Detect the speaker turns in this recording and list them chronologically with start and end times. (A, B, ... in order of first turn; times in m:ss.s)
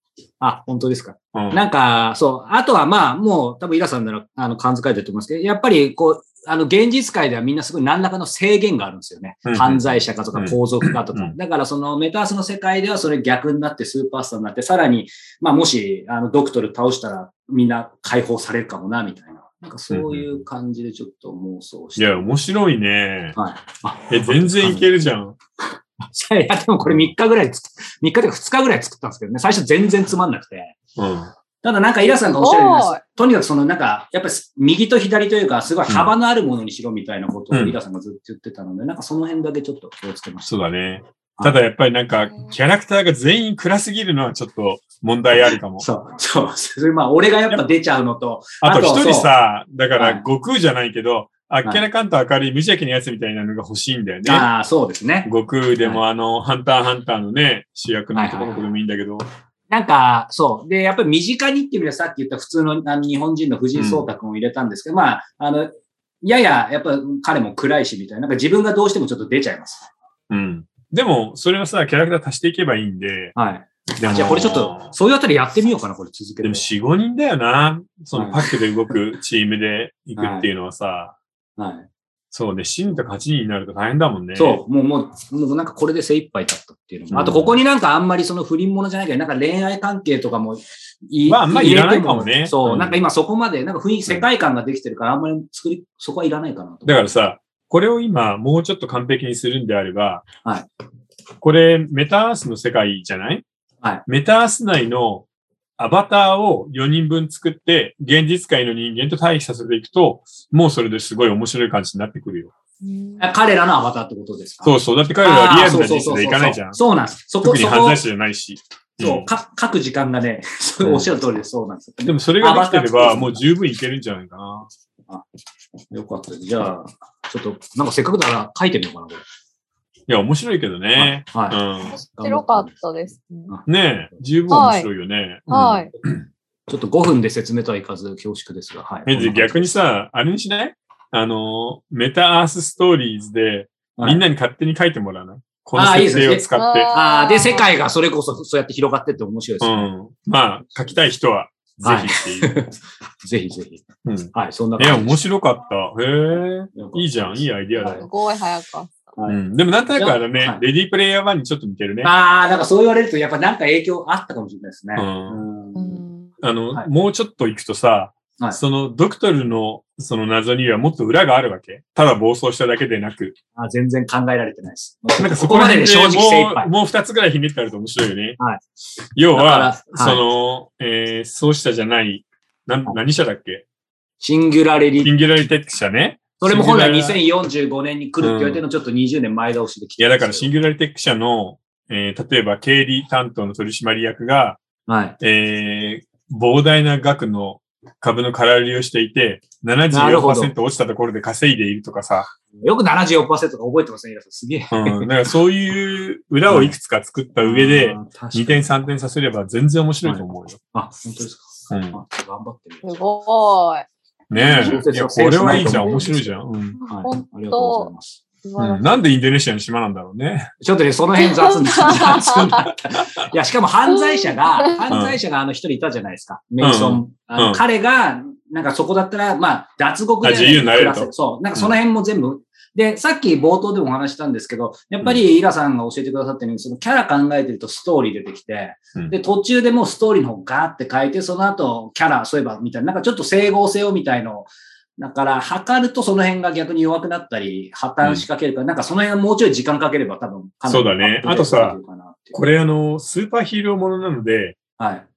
0:00.4-0:22.3 A
0:01.3-0:01.6 B
0:09.5-0:09.8 B
0:10.3-0:11.3 B
0:19.9-0:20.3 B
0:22.0-0:23.4 B
0:23.4-0:24.9 A
0:24.1-0:25.4 B
0:26.0-0:30.8 A
0:31.0-0:31.3 B
0:31.6-0:40.5 A
0:32.4-0:33.0 C
0:37.5-0:37.8 B
0:40.5-0:45.8 B
0:45.5-0:49.3 A
0:48.6-0:54.5 B
0:50.0-0:50.2 A
0:54.3-0:56.0 A
0:55.2-0:59.2 B
0:58.1-0:58.7 A
0:59.7-1:09.9 A
1:03.8-1:04.1 B
1:10.3-1:13.3 B
1:13.4-1:16.7 A
1:14.0-1:14.9 B
1:16.4-1:21.2 B
1:18.1-1:18.9 A
1:20.2-1:20.5 A
1:21.6-1:21.9 A
1:22.3-1:24.6 B
1:24.4-1:37.2 A
1:27.1-1:27.6 B
1:31.3-1:33.0 B
1:36.8-1:40.2 B
1:40.4-1:40.7 A
1:41.4-1:43.4 B
1:44.1-1:45.3 B
1:45.8-1:52.5 B
1:52.8-1:53.3 C
1:53.2-1:58.0 A
1:54.6-1:56.8 B
1:57.4-1:59.3 B
1:59.0-2:03.4 A
2:00.8-2:01.1 B
2:02.0-2:04.7 B
2:05.9-2:09.2 A
2:10.1-2:12.0 B
2:11.0-2:11.6 A
2:11.9-2:13.5 C
2:12.1-2:12.8 A
2:13.7-2:16.1 B
2:14.5-2:14.9 C
2:15.5-2:15.9 C
2:16.7-2:19.8 A
2:19.1-2:26.9 B
2:24.0-2:24.2 A
2:25.8-2:29.9 A
2:26.6-2:27.7 C
2:29.6-2:32.5 B
2:31.8-2:35.2 A
2:34.0-2:38.0 B
2:36.7-2:38.0 A
2:37.8-2:39.0 C
2:39.3-2:42.1 B
2:39.9-2:40.6 A
2:42.0-2:46.0 A
2:45.0-2:45.4 B
2:45.8-2:46.3 C
2:46.4-2:53.4 B
2:53.6-2:56.7 A
2:55.2-2:58.4 B
2:59.2-3:03.6 B
2:59.3-3:00.2 A
3:04.2-3:05.1 A
3:05.0-3:07.2 B
3:06.4-3:10.5 A
3:08.2-3:08.6 B
3:10.0-3:14.6 B
3:14.9-3:15.2 A
3:15.2-3:22.3 B
3:19.9-3:20.5 A
3:22.5-3:25.1 A
3:24.7-3:30.6 B
3:26.5-3:26.8 A
3:27.4-3:28.7 A
3:30.0-3:33.0 A
3:31.7-3:32.0 B
3:32.8-3:34.8 C
3:34.3-3:36.8 B
3:34.6-3:36.4 A
3:36.8-3:37.9 C
3:36.9-3:38.2 A
3:38.4-3:39.0 C
3:38.6-3:40.5 B
3:40.6-4:12.4 A
3:41.2-3:42.4 C
3:43.9-3:44.7 C
3:44.9-3:45.2 B
3:46.6-3:47.6 B
3:50.2-3:51.7 B
4:10.7-4:11.8 B
4:12.3-4:14.6 B
4:14.8-4:15.1 A